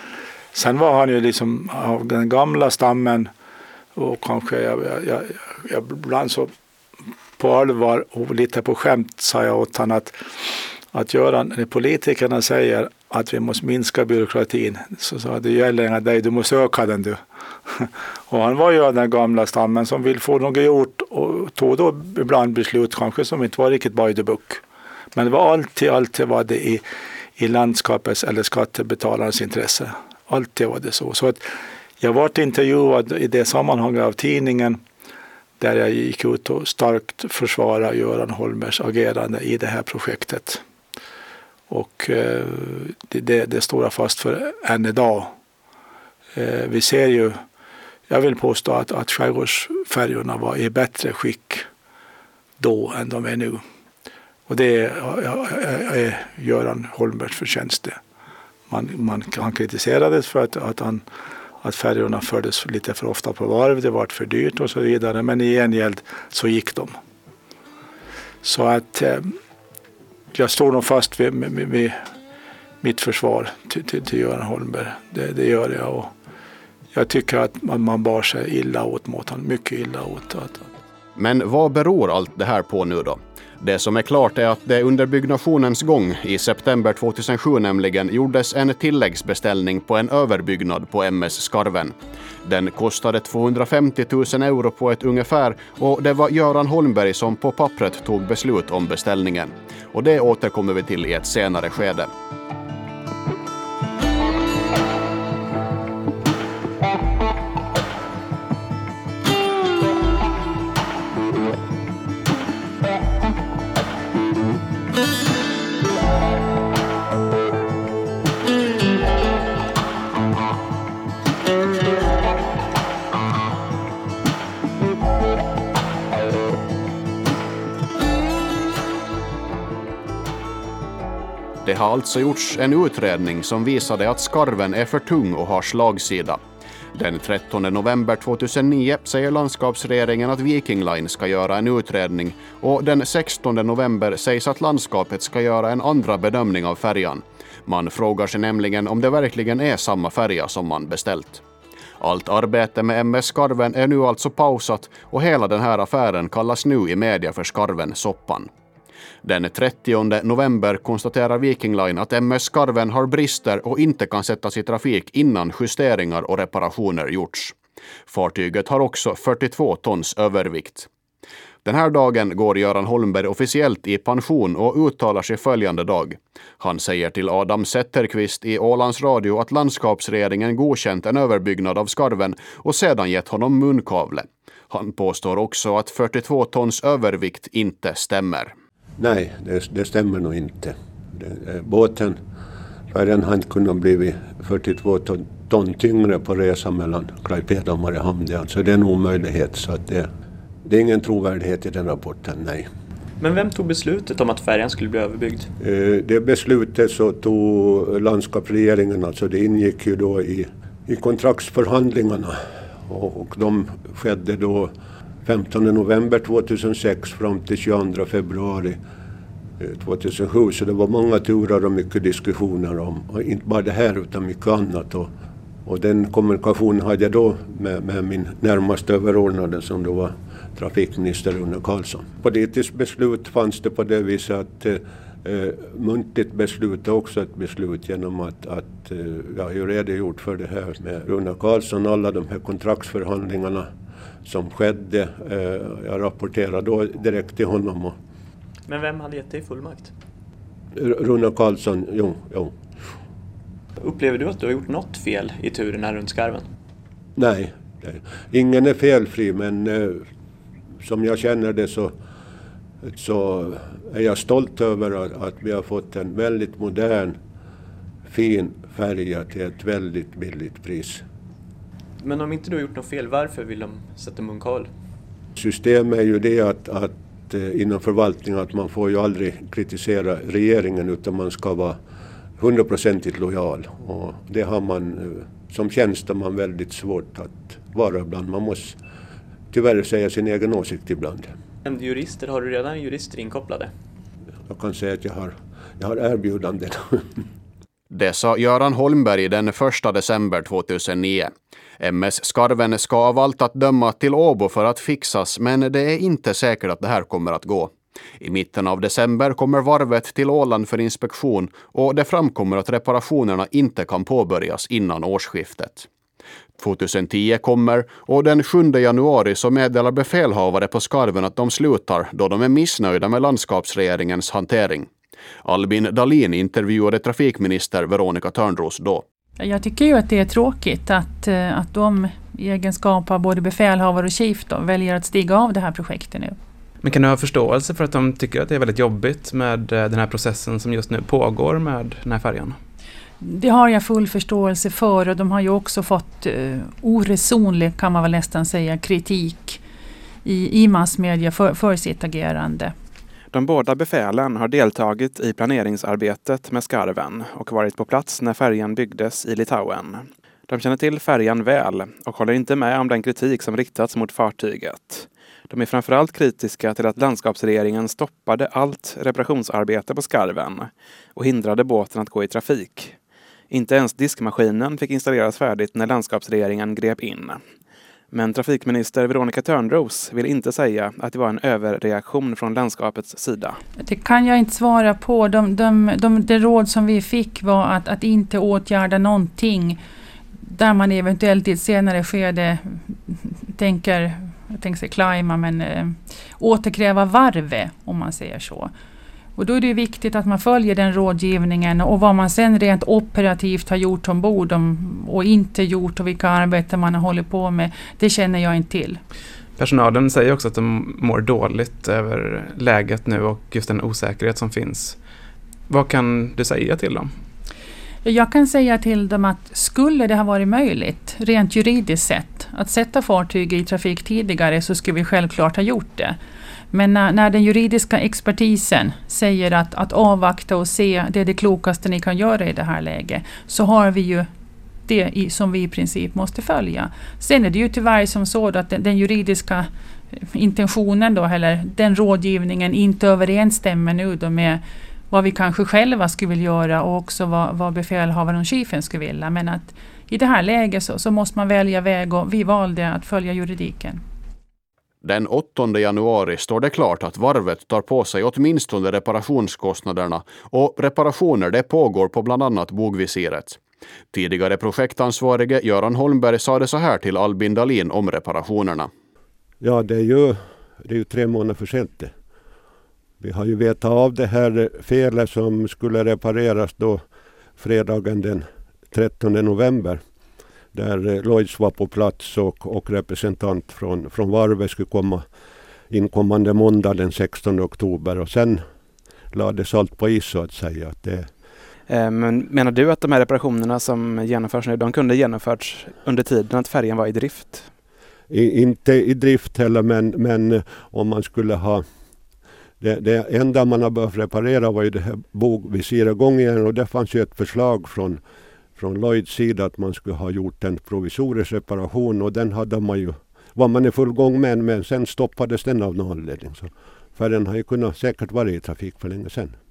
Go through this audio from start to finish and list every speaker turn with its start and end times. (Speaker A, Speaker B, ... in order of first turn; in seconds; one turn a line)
Speaker A: 0.5-3.3
Speaker A: 4.0-6.5
Speaker A: 7.4-24.6
Speaker A: 25.1-26.8
Speaker A: 27.4-31.4
Speaker A: 32.0-34.8
Speaker A: 35.6-40.6
Speaker A: 41.7-45.3
Speaker A: 46.4-47.4
Speaker A: 48.1-51.6
Speaker A: 52.6-53.6
Speaker A: 54.5-58.0
Speaker A: 58.7-61.0
Speaker A: 61.6-67.0
Speaker A: 68.4-69.3
Speaker A: 70.3-72.0
Speaker A: 72.8-76.1
Speaker A: 76.9-80.7
Speaker B: 81.2-102.1
Speaker B: 131.6-136.4
Speaker B: 136.9-151.4
Speaker B: 152.0-158.5
Speaker B: 159.2-167.5
Speaker B: 168.1-170.9
Speaker B: 171.6-188.5
Speaker C: 189.0-192.2
Speaker C: 192.9-200.1
Speaker C: 200.6-202.7
Speaker D: 203.2-205.5
Speaker C: 205.6-214.7
Speaker C: 215.2-218.8
Speaker C: 219.6-225.1
Speaker C: 225.6-243.7
Speaker C: 244.2-247.9
Speaker D: 248.7-249.9
Speaker C: 250.7-252.6
Speaker D: 253.8-256.5
Speaker C: 257.1-260.1
Speaker C: 260.8-261.9
Speaker C: 262.8-267.2
Speaker C: 268.1-271.0
Speaker D: 272.0-274.7
Speaker C: 275.4-281.8
Speaker C: 282.4-288.8
Speaker C: 289.5-291.3
Speaker D: 291.6-293.7
Speaker C: 294.5-297.2
Speaker B: 297.9-315.9
Speaker B: 316.6-324.9
Speaker B: 325.4-329.0
Speaker E: 329.4-336.4
Speaker F: 336.8-342.6
Speaker E: 343.2-349.6
Speaker E: 350.2-352.7
Speaker F: 353.3-373.0
Speaker F: 373.5-377.4
Speaker F: 378.1-383.6
Speaker E: 383.8-389.8
Speaker E: 390.4-398.7
Speaker E: 399.4-409.0
Speaker F: 409.6-415.0
Speaker F: 415.7-417.1
Speaker E: 418.0-426.2
Speaker E: 426.7-434.3
Speaker E: 434.9-454.0
Speaker B: 455.0-463.6
Speaker B: 464.1-468.9
Speaker C: 469.6-472.1
Speaker C: 473.2-477.0
Speaker C: 477.6-480.0
Speaker C: 480.7-485.3
Speaker C: 485.9-488.6
Speaker C: 489.3-491.3
Speaker F: 491.9-497.7
Speaker C: 498.3-501.9
Speaker C: 502.8-508.2
Speaker C: 508.8-519.6